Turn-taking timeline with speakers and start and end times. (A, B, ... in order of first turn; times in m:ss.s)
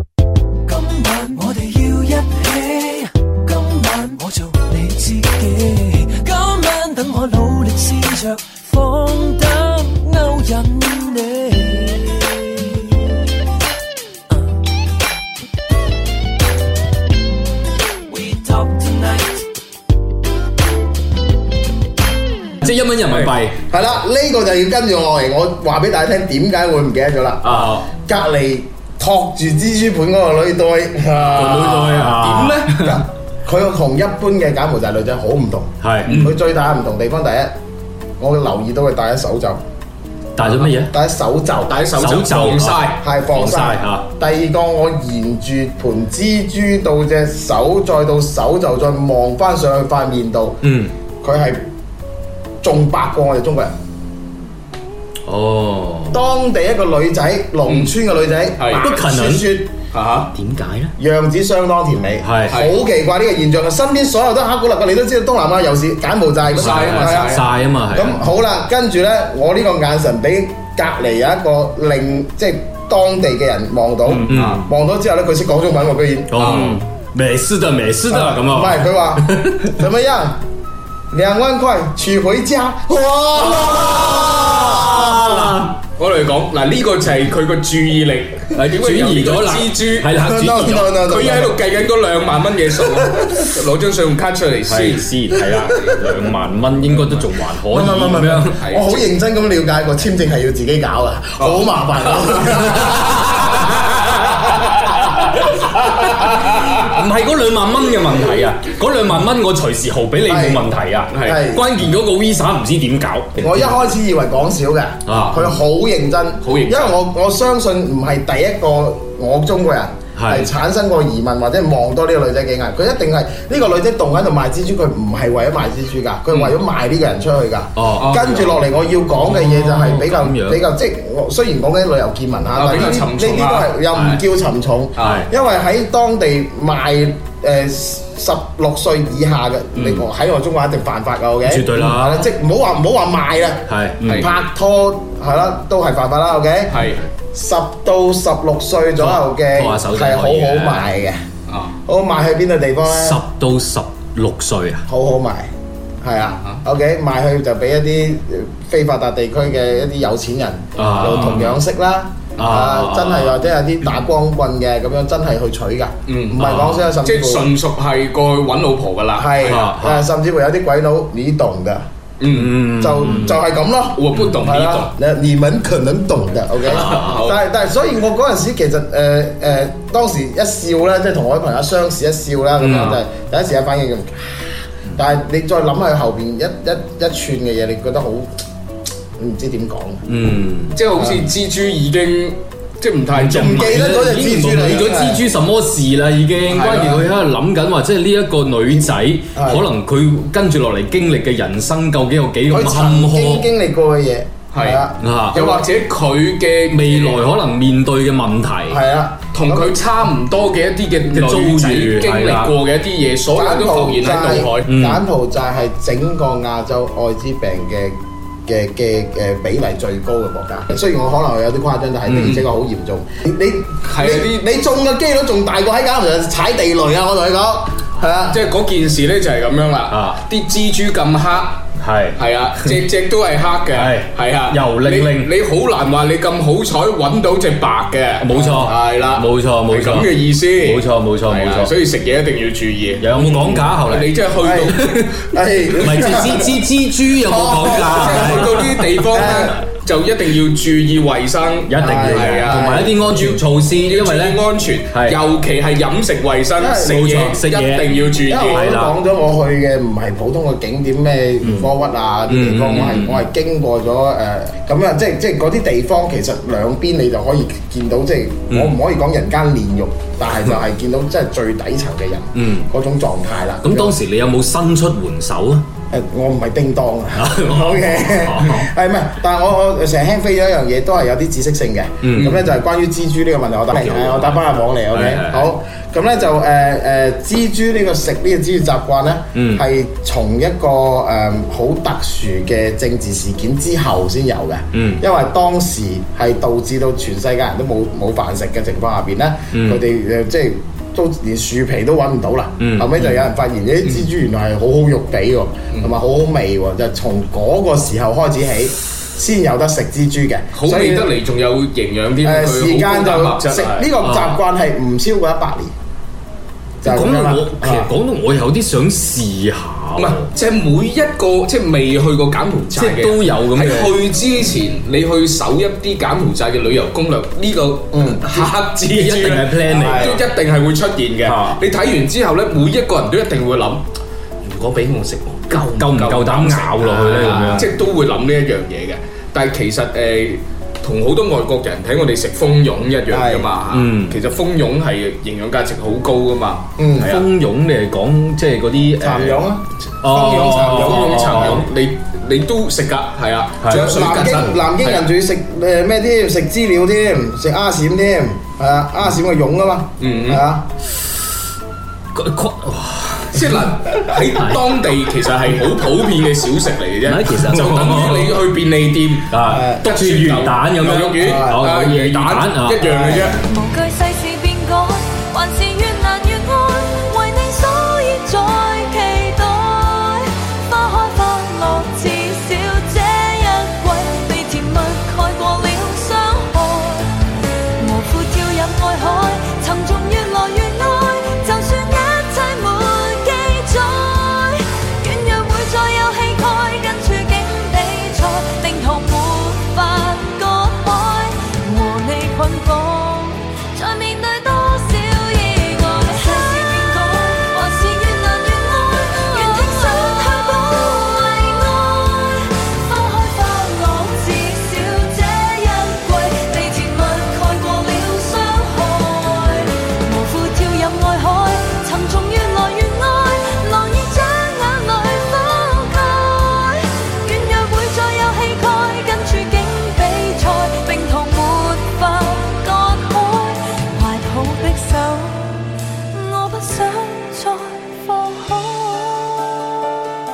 0:00.7-0:13.1 A
0:18.1-0:19.4 A
0:22.6-0:23.6 B
0:23.1-0:32.2 C
0:27.4-0:27.9 B
0:31.3-0:33.0 B
0:32.1-0:32.9 D
0:32.8-0:37.5 C
0:35.8-0:36.3 B
0:36.0-0:36.4 D
0:38.2-0:39.6 C
0:40.4-0:40.9 B
0:40.4-0:40.6 D
0:40.9-0:41.8 C
0:41.6-0:43.0 D
0:41.9-0:44.1 B
0:43.0-0:50.6 C
0:50.6-0:50.9 B
0:51.2-0:51.6 C
0:52.6-0:53.7 C
0:55.2-0:56.2 B
0:56.1-0:59.7 C
0:57.6-0:57.9 D
0:58.6-0:58.8 D
0:58.7-0:59.5 B
0:59.9-1:00.3 D
1:00.3-1:00.9 B
1:01.0-1:07.4 C
1:02.2-1:02.6 B
1:02.5-1:02.8 D
1:06.5-1:07.5 D
1:06.5-1:08.2 B
1:07.9-1:16.7 C
1:14.1-1:14.6 D
1:14.2-1:14.6 B
1:16.3-1:19.8 B
1:16.4-1:16.8 D
1:18.1-1:20.4 C
1:21.1-1:25.7 C
1:24.4-1:25.7 B
1:26.0-1:30.2 D
1:28.5-1:31.1 B
1:30.2-1:31.6 C
1:31.0-1:35.9 D
1:34.7-1:38.6 B
1:37.7-1:43.3 C
1:38.2-1:39.0 D
1:41.4-1:42.5 D
1:42.8-1:53.8 B
1:50.3-1:50.6 C
1:51.1-1:51.4 D
1:51.2-1:51.6 C
1:53.4-2:26.8 C
1:55.0-1:55.6 B
1:55.1-1:55.4 D
1:56.4-1:57.0 D
2:00.2-2:00.5 B
2:07.7-2:08.1 B
2:08.0-2:08.6 D
2:09.2-2:10.6 B
2:12.5-2:14.2 D
2:14.9-2:15.3 D
2:15.0-2:15.3 B
2:19.7-2:20.0 D
2:21.4-2:22.3 B
2:23.6-2:24.3 B
2:24.0-2:24.3 D
2:26.7-2:27.0 D
2:27.3-2:31.2 C
2:29.0-2:31.0 B
2:31.5-2:31.8 D
2:31.8-2:33.2 C
2:32.8-2:34.8 B
2:34.9-2:35.5 C
2:36.0-2:47.5 C
2:36.2-2:36.6 D
2:40.8-2:41.6 B
2:41.0-2:41.5 D
2:42.4-2:43.4 B
2:46.1-2:49.7 D
2:46.4-2:46.9 B
2:49.2-2:51.8 C
2:49.4-2:50.1 B
2:52.2-2:53.1 D
2:52.3-2:53.4 B
2:52.8-3:08.3 C
2:53.9-2:54.9 D
2:56.6-2:57.2 B
2:56.6-2:57.4 D
3:02.6-3:03.0 B
3:09.2-3:10.0 C
3:10.1-3:10.8 B
3:10.7-3:14.9 D
3:11.0-3:11.2 C
3:13.1-3:23.5 B
3:13.3-3:15.2 C
3:16.5-3:17.0 D
3:19.4-3:19.6 C
3:22.5-3:25.6 C
3:24.5-3:27.2 D
3:25.0-3:25.4 B
3:26.7-3:28.8 B
3:28.7-3:29.8 C
3:29.3-3:34.7 D
3:31.1-3:32.5 B
3:33.3-3:38.0 C
3:34.6-3:35.0 B
3:38.5-3:48.4 C
3:42.0-3:42.4 B
3:42.2-3:42.4 D
3:43.8-3:44.5 D
3:48.2-3:51.6 D
3:49.9-3:50.2 B
3:51.8-3:52.8 B
3:52.2-4:05.2 D
3:53.7-3:55.3 B
3:58.2-4:01.7 B
4:03.0-4:05.1 B
4:04.4-4:04.8 C
4:05.3-4:06.6 C
4:05.8-4:08.7 B
4:05.8-4:06.2 D
4:07.3-4:08.5 C
4:07.5-4:18.6 D
4:09.1-4:09.6 C
4:11.7-4:15.2 B
4:11.8-4:12.9 C
4:16.6-4:17.0 C
4:16.8-4:18.9 B
4:18.2-4:34.0 C
4:21.4-4:21.7 B
4:22.3-4:23.2 B
4:28.5-4:28.8 B
4:32.3-4:32.7 B
4:33.6-4:35.6 B
4:35.9-5:11.1 C
4:37.1-4:38.7 B
4:42.0-4:42.4 B
4:43.7-4:45.5 B
4:49.3-4:49.6 B
4:54.7-4:55.0 B
4:59.5-4:59.8 B
5:02.6-5:03.2 B
5:03.8-5:04.1 D
5:10.5-5:13.9 D
5:12.2-5:15.7 C
5:14.0-5:14.4 B
5:16.8-5:17.9 C
5:16.8-5:20.3 B
5:20.0-5:33.8 D
5:22.7-5:24.0 B
5:27.9-5:28.5 C
5:28.9-5:30.2 B
5:29.6-5:30.2 C
5:31.2-5:31.6 B
5:34.4-5:47.3 D
5:35.7-5:37.7 B
5:37.2-5:37.6 C
5:43.1-5:43.5 C
5:43.7-5:44.2 B
5:46.8-5:47.1 C
5:47.0-5:49.5 B
5:49.0-5:51.6 C
5:50.0-5:51.6 B
5:50.5-5:55.1 D
5:53.6-5:54.0 B
5:53.7-6:00.7 C
6:00.0-6:00.4 D
6:02.1-6:04.7 B
6:03.3-6:13.4 D
6:07.0-6:08.4 B
6:09.3-6:13.3 B
6:09.4-6:09.8 C
6:11.2-6:11.6 C
6:12.8-6:13.3 C
6:13.4-6:27.2 E
6:27.8-7:19.4 E